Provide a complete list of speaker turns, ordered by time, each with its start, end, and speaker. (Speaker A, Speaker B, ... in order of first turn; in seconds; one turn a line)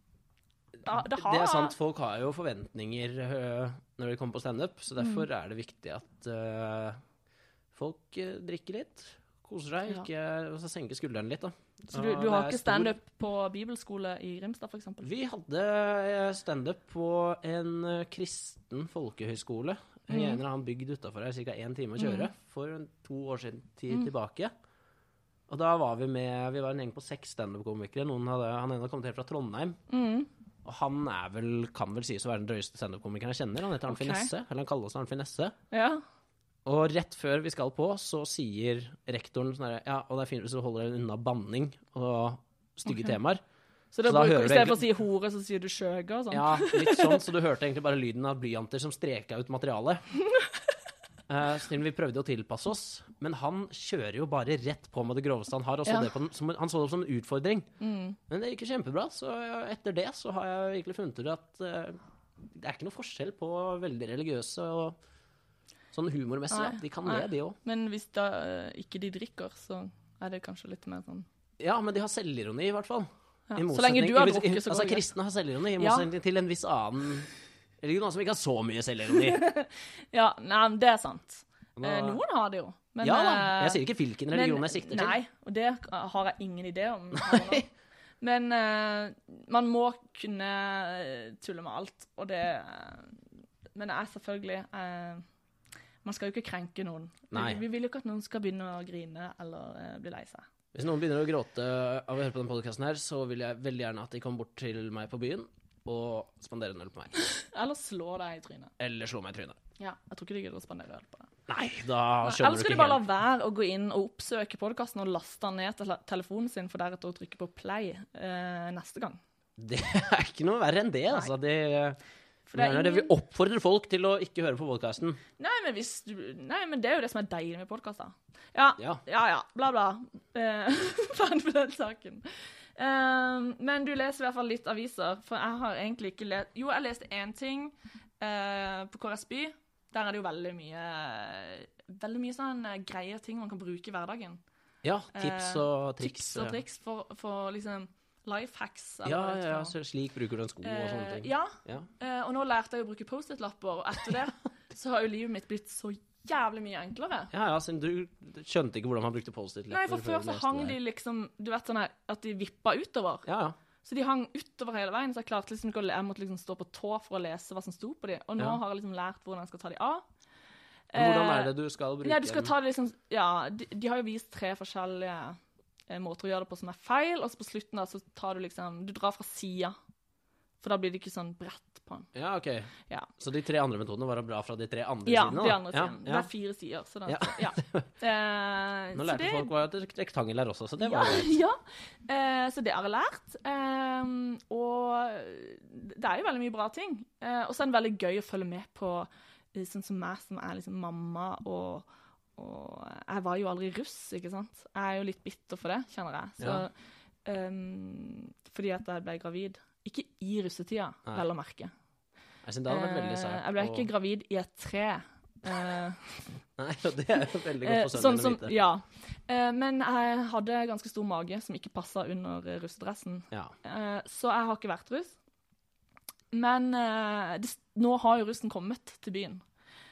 Speaker A: 0.8-1.8
Speaker B: 0.9-7.0
Speaker B: 7.7-12.9
Speaker A: 11.9-15.1
Speaker B: 15.0-24.5
Speaker A: 20.1-20.4
Speaker A: 22.0-22.3
Speaker B: 25.5-29.8
Speaker A: 29.9-30.3
Speaker B: 30.6-35.5
Speaker A: 33.9-34.3
Speaker A: 35.7-36.0
Speaker B: 36.6-43.4
Speaker A: 42.9-43.1
Speaker A: 43.9-47.2
Speaker B: 44.1-44.9
Speaker B: 46.3-50.0
Speaker B: 51.3-57.7
Speaker A: 55.9-56.1
Speaker A: 57.8-58.2
Speaker B: 58.3-65.0
Speaker B: 65.9-67.6
Speaker A: 66.5-71.3
Speaker B: 71.6-77.3
Speaker A: 73.5-75.1
Speaker A: 75.8-76.1
Speaker B: 77.8-79.4
Speaker A: 79.1-87.7
Speaker B: 81.8-82.2
Speaker B: 83.0-85.2
Speaker B: 87.1-87.6
Speaker A: 88.2-93.2
Speaker A: 93.8-95.2
Speaker A: 96.0-100.5
Speaker B: 97.3-97.6
Speaker B: 100.7-107.1
Speaker A: 107.2-108.7
Speaker B: 108.8-109.6
Speaker A: 109.8-111.3
Speaker B: 111.5-113.0
Speaker A: 112.2-119.2
Speaker B: 119.6-122.0
Speaker A: 122.5-123.1
Speaker B: 122.5-125.2
Speaker A: 125.4-144.4
Speaker B: 144.8-146.6
Speaker A: 145.1-149.7
Speaker B: 149.1-151.9
Speaker A: 150.6-157.3
Speaker B: 157.3-160.8
Speaker A: 159.7-163.2
Speaker B: 163.3-163.6
Speaker A: 163.8-170.0
Speaker A: 170.9-171.5
Speaker B: 170.9-172.5
Speaker A: 172.0-179.7
Speaker A: 180.6-182.1
Speaker B: 182.1-186.3
Speaker A: 185.1-189.5
Speaker B: 187.1-187.9
Speaker B: 188.9-191.4
Speaker A: 190.8-206.7
Speaker A: 207.2-211.7
Speaker B: 212.4-213.9
Speaker A: 212.7-216.2
Speaker B: 216.6-218.6
Speaker A: 217.6-225.2
Speaker A: 226.3-229.4